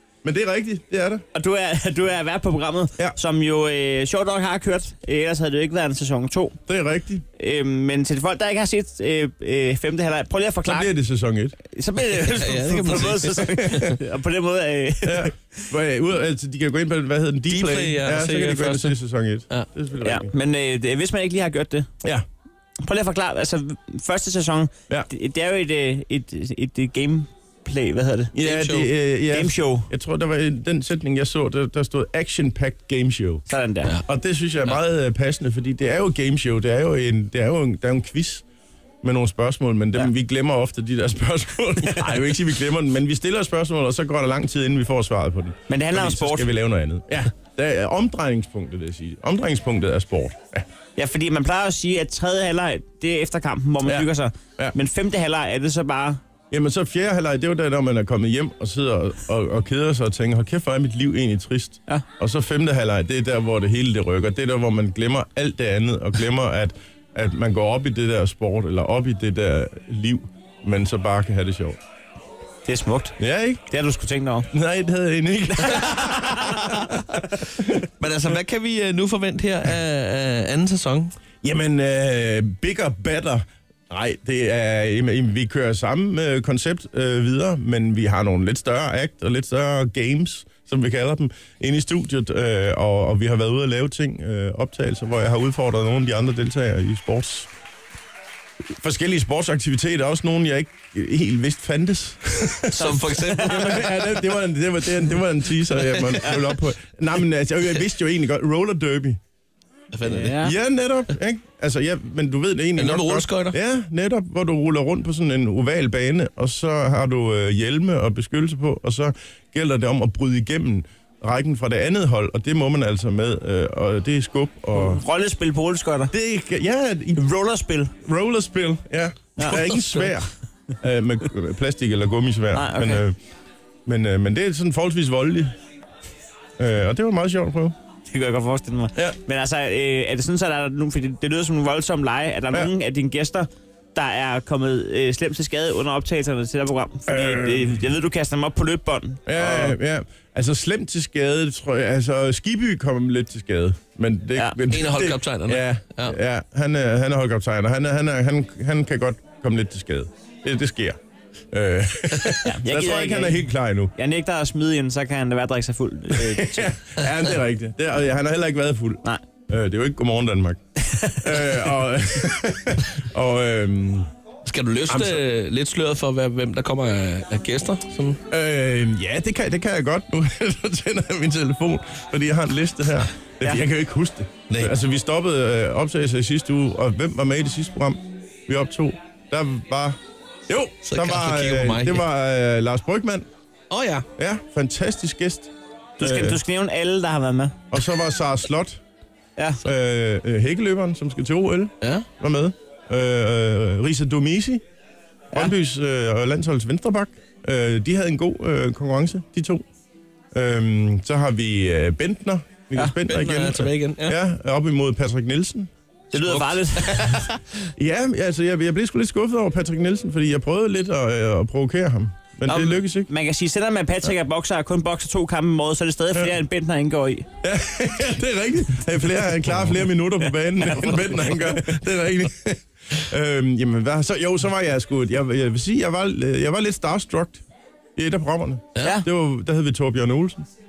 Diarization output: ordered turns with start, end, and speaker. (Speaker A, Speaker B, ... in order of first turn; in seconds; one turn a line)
Speaker A: 0.2-1.2
Speaker B: 1.3-6.6
Speaker A: 6.7-7.2
Speaker B: 7.3-10.9
Speaker A: 10.6-11.6
Speaker B: 11.6-15.3
Speaker C: 12.2-14.0
Speaker A: 13.4-13.9
Speaker A: 15.0-20.3
Speaker C: 17.5-19.0
Speaker B: 20.0-21.9
Speaker B: 22.8-28.3
Speaker A: 28.3-33.5
Speaker C: 28.4-28.9
Speaker B: 29.3-29.9
Speaker B: 33.5-34.0
Speaker A: 34.0-38.4
Speaker A: 39.0-50.6
Speaker B: 41.9-42.3
Speaker B: 45.7-46.5
Speaker B: 51.0-56.2
Speaker A: 53.8-54.8
Speaker A: 56.5-71.8
Speaker B: 72.6-74.5
Speaker A: 73.2-73.6
Speaker A: 74.5-77.8
Speaker B: 75.8-76.6
Speaker C: 76.5-77.2
Speaker C: 78.0-81.1
Speaker A: 81.4-97.5
Speaker A: 98.8-109.2
Speaker C: 102.6-103.8
Speaker B: 102.7-103.9
Speaker C: 105.7-106.4
Speaker C: 109.9-110.5
Speaker B: 110.0-110.5
Speaker A: 110.3-125.0
Speaker C: 112.8-113.6
Speaker B: 124.7-126.1
Speaker A: 126.1-127.2
Speaker B: 127.2-127.9
Speaker A: 128.0-133.2
Speaker C: 129.5-130.1
Speaker B: 132.5-133.0
Speaker A: 133.8-135.5
Speaker A: 136.6-137.7
Speaker B: 138.1-149.7
Speaker A: 147.1-147.8
Speaker A: 149.2-161.0
Speaker C: 154.7-156.2
Speaker A: 161.5-163.9
Speaker B: 162.4-166.7
Speaker A: 166.1-174.1
Speaker C: 174.4-178.2
Speaker A: 174.9-175.2
Speaker A: 178.3-190.0
Speaker A: 190.5-193.3
Speaker C: 190.8-192.0
Speaker C: 193.7-194.1
Speaker A: 194.2-196.4
Speaker B: 196.0-197.6
Speaker A: 197.7-198.8
Speaker A: 199.6-204.6
Speaker C: 201.8-202.1
Speaker A: 205.3-209.6
Speaker A: 210.3-215.7
Speaker C: 213.0-214.2
Speaker B: 216.1-217.4
Speaker C: 216.1-217.3
Speaker A: 217.8-223.1
Speaker B: 222.5-227.3
Speaker A: 227.4-237.4
Speaker A: 237.9-240.4
Speaker C: 238.7-239.0
Speaker B: 238.8-239.1